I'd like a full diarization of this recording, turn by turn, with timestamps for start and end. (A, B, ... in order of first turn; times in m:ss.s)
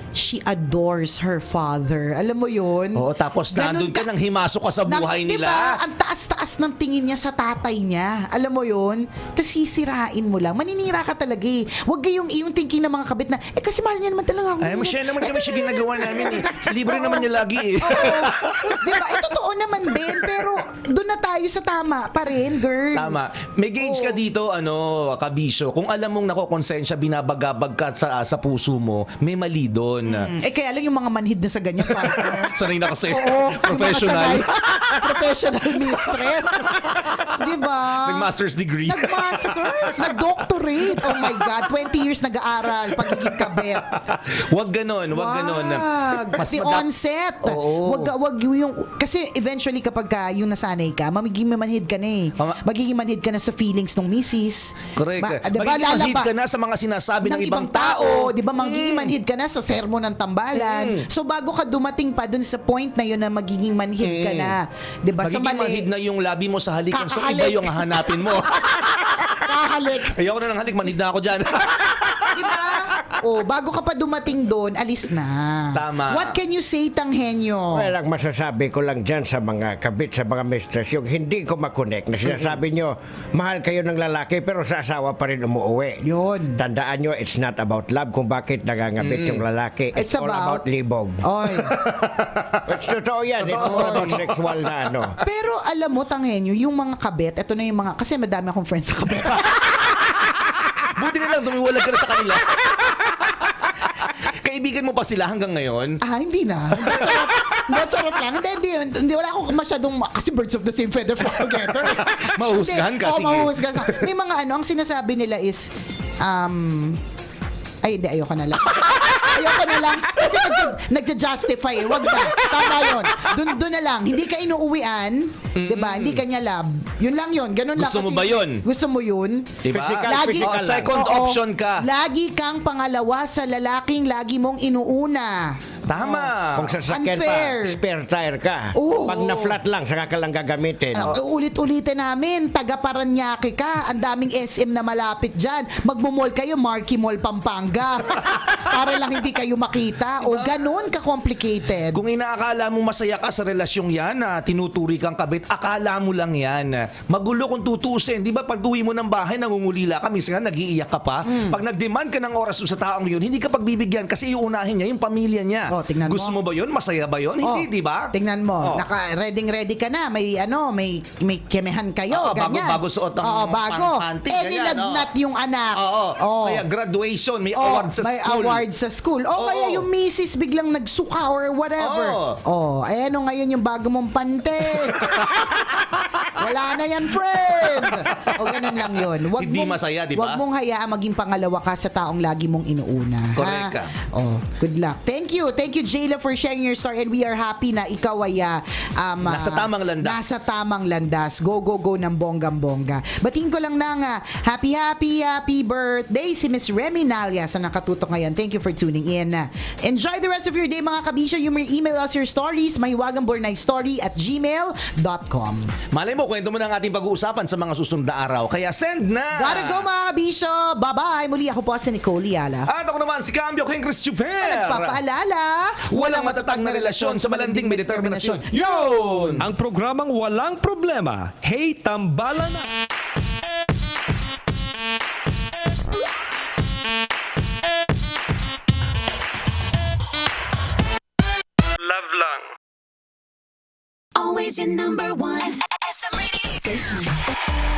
0:00.1-0:04.1 A
0:02.9-0:05.8 B
0:04.9-0:17.3 A
0:14.6-0:19.1 B
0:17.8-0:23.2 A
0:22.9-0:30.3 B
0:23.8-0:24.2 A
0:30.1-0:38.3 A
0:32.0-0:35.0 B
0:36.7-0:37.2 B
0:37.9-0:40.1 B
0:38.9-0:44.0 A
0:43.2-0:46.8 B
0:45.1-0:56.3 A
0:47.4-0:48.1 B
0:55.0-0:59.1 B
0:57.2-1:05.9 A
1:00.5-1:01.0 B
1:04.0-1:04.6 B
1:05.2-1:09.3 B
1:06.9-1:10.2 A
1:10.1-1:12.4 B
1:12.3-1:17.9 A
1:15.7-1:16.3 B
1:17.7-1:26.0 C
1:26.0-1:26.6 A
1:26.6-1:31.4 C
1:29.0-1:29.4 B
1:29.9-1:30.6 A
1:31.2-1:31.8 A
1:31.7-1:32.6 B
1:32.6-1:35.1 C
1:33.5-1:34.3 B
1:33.5-1:34.2 A
1:35.2-1:39.9 A
1:40.8-1:43.4 B
1:44.0-1:46.0 B
1:46.0-1:57.0 A
1:46.8-1:47.6 B
1:51.8-1:54.0 B
1:57.8-2:16.3 A
2:05.6-2:06.2 B
2:07.8-2:08.6 B
2:09.6-2:11.8 B
2:09.7-2:11.0 C
2:15.9-2:16.8 B
2:16.5-2:21.2 C
2:16.9-2:17.8 A
2:18.7-2:19.6 A
2:20.9-2:32.0 A
2:30.2-2:30.6 B
2:31.9-2:48.8 B
2:41.2-2:41.6 A
2:45.7-2:46.4 A
2:47.4-2:56.6 A
2:52.1-2:55.1 B
2:55.7-2:58.6 B
2:57.5-3:35.7 A
2:59.4-2:59.8 B
3:01.8-3:02.4 B
3:04.8-3:05.6 B
3:09.4-3:10.4 B
3:13.4-3:13.9 B
3:19.2-3:20.4 B
3:35.9-3:39.8 B
3:39.3-3:42.7 A
3:42.7-3:45.0 B
3:44.4-3:49.4 A
3:45.9-3:49.4 B
3:49.4-3:52.7 D
4:04.2-4:07.2 E